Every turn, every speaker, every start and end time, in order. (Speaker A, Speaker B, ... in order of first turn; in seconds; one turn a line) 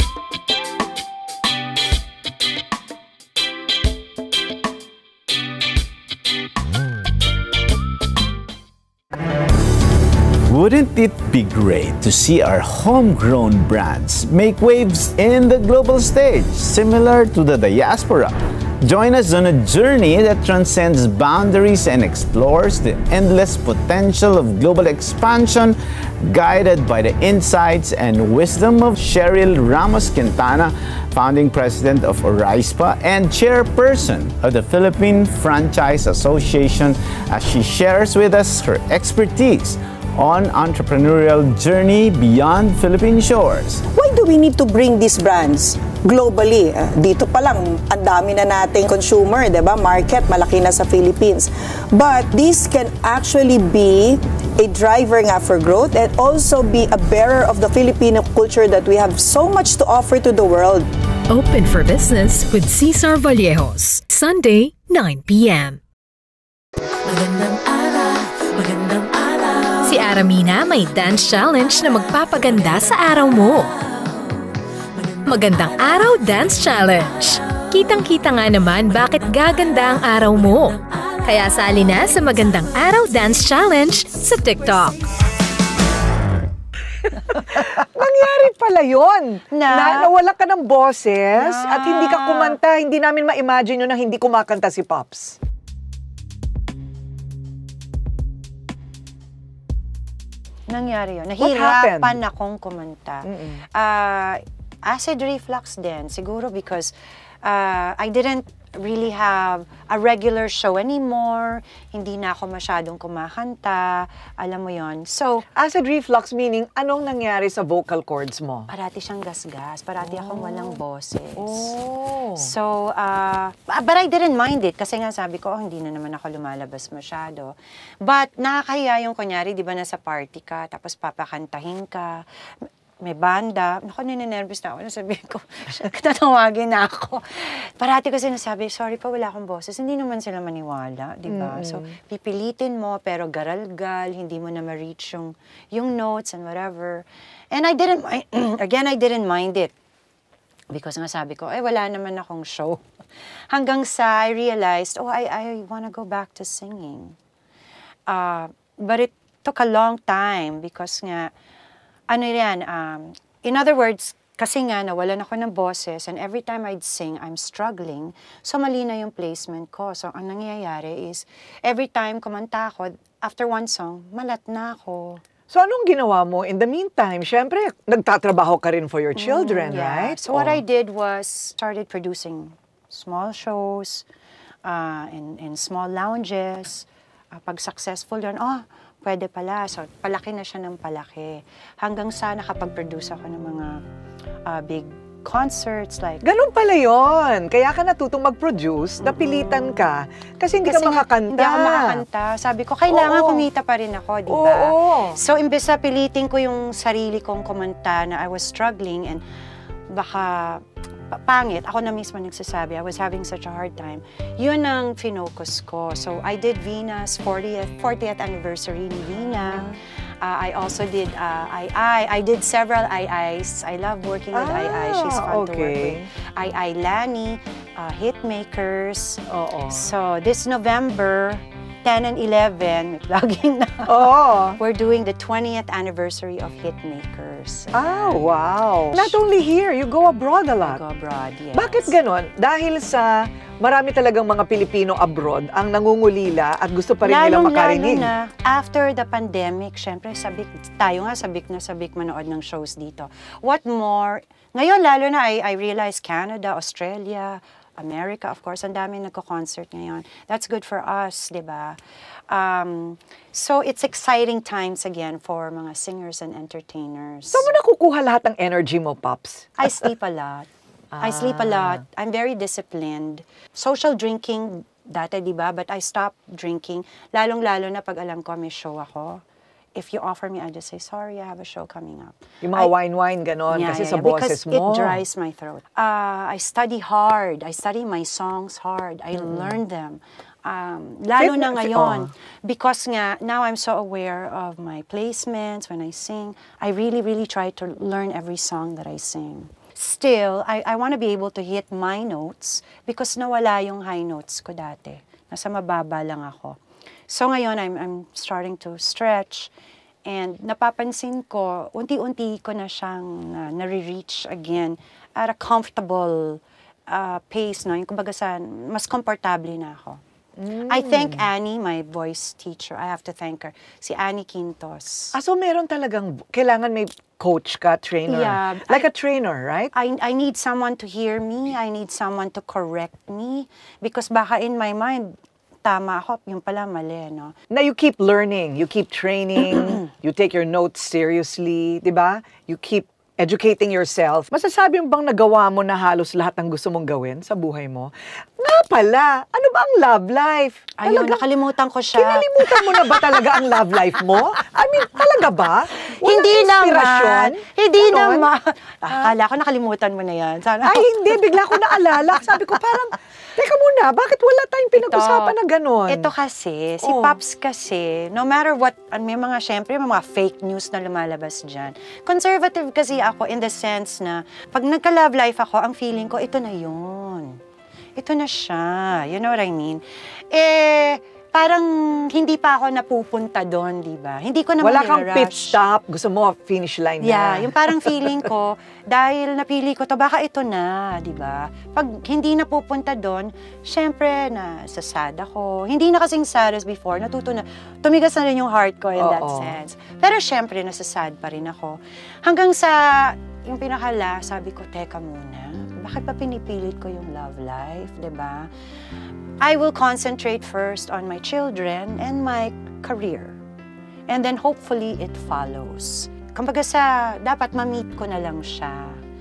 Speaker A: 10.5-43.8
Speaker B: 43.9-60.9
Speaker C: 61.3-65.8
Speaker C: 67.1-73.7
Speaker C: 75.0-85.0
Speaker D: 87.3-95.4
Speaker E: 89.5-90.1
Speaker E: 91.4-92.6
Speaker E: 100.7-115.5
Speaker D: 101.4-102.2
Speaker D: 103.2-103.7
Speaker D: 115.5-118.7
Speaker E: 118.7-121.7
Speaker D: 120.0-120.8
Speaker D: 121.4-122.5
Speaker E: 122.4-132.3
Speaker E: 133.0-149.7
Speaker D: 141.3-141.9
Speaker E: 150.7-152.8
Speaker E: 153.5-157.2
Speaker E: 158.1-161.3
Speaker E: 162.1-175.2
Speaker D: 175.5-180.6
Speaker E: 179.2-184.1
Speaker E: 184.7-193.8
Speaker E: 194.5-196.2
Speaker D: 196.2-202.0
Speaker E: 200.6-209.2
Speaker D: 202.9-203.5
Speaker D: 204.3-205.2
Speaker E: 209.9-219.7
Speaker D: 219.3-219.8
Speaker E: 220.2-238.4
Speaker D: 224.3-226.1
Speaker D: 229.3-229.9
Speaker D: 233.9-234.6
Speaker D: 237.7-240.8
Speaker E: 238.9-239.2
Speaker E: 240.6-242.0
Speaker D: 241.5-248.1
Speaker E: 247.0-261.8
Speaker E: 262.3-267.5
Speaker D: 267.3-269.8
Speaker E: 269.6-270.5
Speaker D: 270.9-271.8
Speaker E: 271.0-279.2
Speaker E: 279.8-282.7
Speaker D: 282.4-285.0
Speaker E: 283.5-309.5
Speaker D: 289.1-289.6
Speaker D: 291.2-292.1
Speaker E: 310.1-320.0
Speaker D: 320.4-321.3
Speaker E: 320.7-325.2
Speaker D: 325.1-329.7
Speaker E: 328.1-328.9
Speaker E: 329.7-337.4
Speaker D: 337.5-351.2
Speaker E: 350.8-353.3
Speaker D: 351.9-358.3
Speaker E: 355.8-361.3
Speaker D: 358.9-359.1
Speaker D: 360.6-366.1
Speaker E: 364.8-365.4
Speaker E: 365.9-377.4
Speaker D: 366.8-367.2
Speaker E: 378.0-385.6
Speaker D: 384.6-388.3
Speaker E: 387.0-408.5
Speaker D: 399.0-399.6
Speaker E: 409.4-413.4
Speaker E: 414.1-419.0